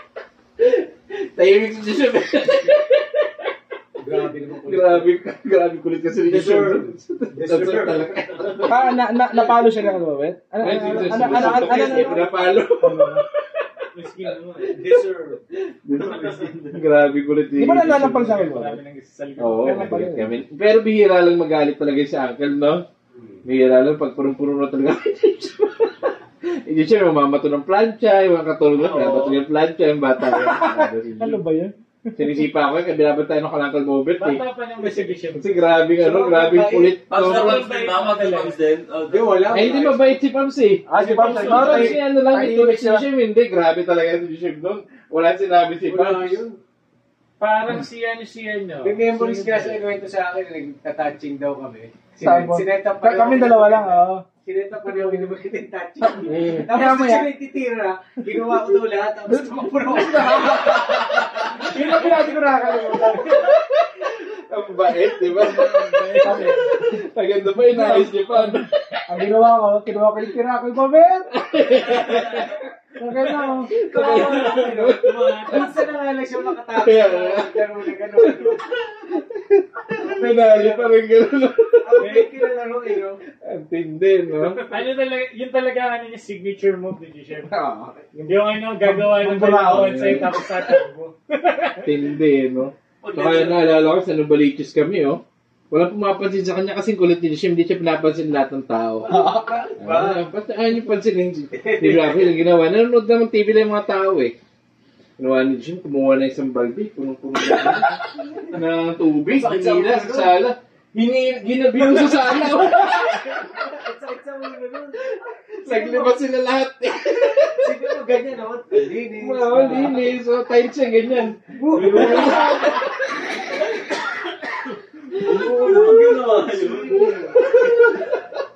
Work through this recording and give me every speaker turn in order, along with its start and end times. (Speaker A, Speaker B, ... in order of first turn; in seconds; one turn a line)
Speaker A: 0.6-3.5
Speaker B: 4.0-5.1
Speaker A: 4.7-8.8
Speaker B: 6.2-8.1
Speaker C: 8.6-12.3
Speaker A: 10.6-13.1
Speaker D: 10.8-11.3
Speaker B: 11.2-12.5
Speaker C: 12.8-13.2
Speaker D: 13.9-14.9
Speaker B: 14.7-15.4
Speaker A: 15.8-18.1
Speaker E: 15.9-16.8
Speaker D: 16.0-16.6
Speaker C: 17.6-18.8
Speaker D: 17.8-20.0
Speaker A: 19.4-22.9
Speaker C: 19.6-20.3
Speaker A: 23.4-26.1
Speaker A: 26.6-31.4
Speaker D: 28.7-29.4
Speaker C: 30.4-30.9
Speaker D: 31.2-32.3
Speaker A: 32.1-34.4
Speaker D: 34.2-35.6
Speaker B: 34.8-35.1
Speaker A: 35.3-37.6
Speaker B: 35.9-37.0
Speaker E: 37.1-39.7
Speaker D: 37.2-38.6
Speaker B: 39.1-40.2
Speaker A: 39.5-46.4
Speaker B: 40.9-42.0
Speaker C: 40.9-43.0
Speaker D: 41.3-41.6
Speaker B: 45.8-46.6
Speaker D: 47.4-49.8
Speaker B: 48.8-60.8
Speaker C: 52.2-54.2
Speaker A: 52.2-52.5
Speaker C: 54.9-55.3
Speaker A: 56.2-56.7
Speaker C: 56.7-57.3
Speaker A: 60.0-61.4
Speaker D: 61.6-62.4
Speaker C: 61.6-63.4
Speaker A: 64.0-69.0
Speaker D: 65.3-66.7
Speaker C: 67.8-68.1
Speaker C: 69.1-71.3
Speaker A: 71.3-72.5
Speaker C: 71.8-72.4
Speaker C: 73.0-73.8
Speaker A: 73.7-75.9
Speaker B: 73.8-78.7
Speaker D: 74.2-75.9
Speaker A: 76.7-78.5
Speaker A: 79.5-82.2
Speaker B: 80.1-80.9
Speaker B: 81.8-83.2
Speaker A: 83.4-84.7
Speaker D: 84.5-87.6
Speaker C: 87.5-90.1
Speaker D: 88.2-91.9
Speaker A: 89.7-90.3
Speaker A: 91.7-99.1
Speaker B: 93.0-93.5
Speaker B: 99.0-100.2
Speaker A: 99.8-104.3
Speaker B: 101.6-102.3
Speaker A: 105.2-113.4
Speaker B: 109.4-110.4
Speaker B: 112.7-115.0
Speaker A: 115.6-117.7
Speaker B: 115.7-116.1
Speaker B: 117.6-120.0
Speaker A: 119.1-122.9
Speaker C: 119.5-119.9
Speaker B: 121.6-122.6
Speaker D: 121.8-122.1
Speaker C: 122.0-122.5
Speaker D: 124.3-124.7
Speaker E: 125.2-127.0
Speaker A: 125.3-126.0
Speaker B: 126.2-127.6
Speaker A: 127.1-128.2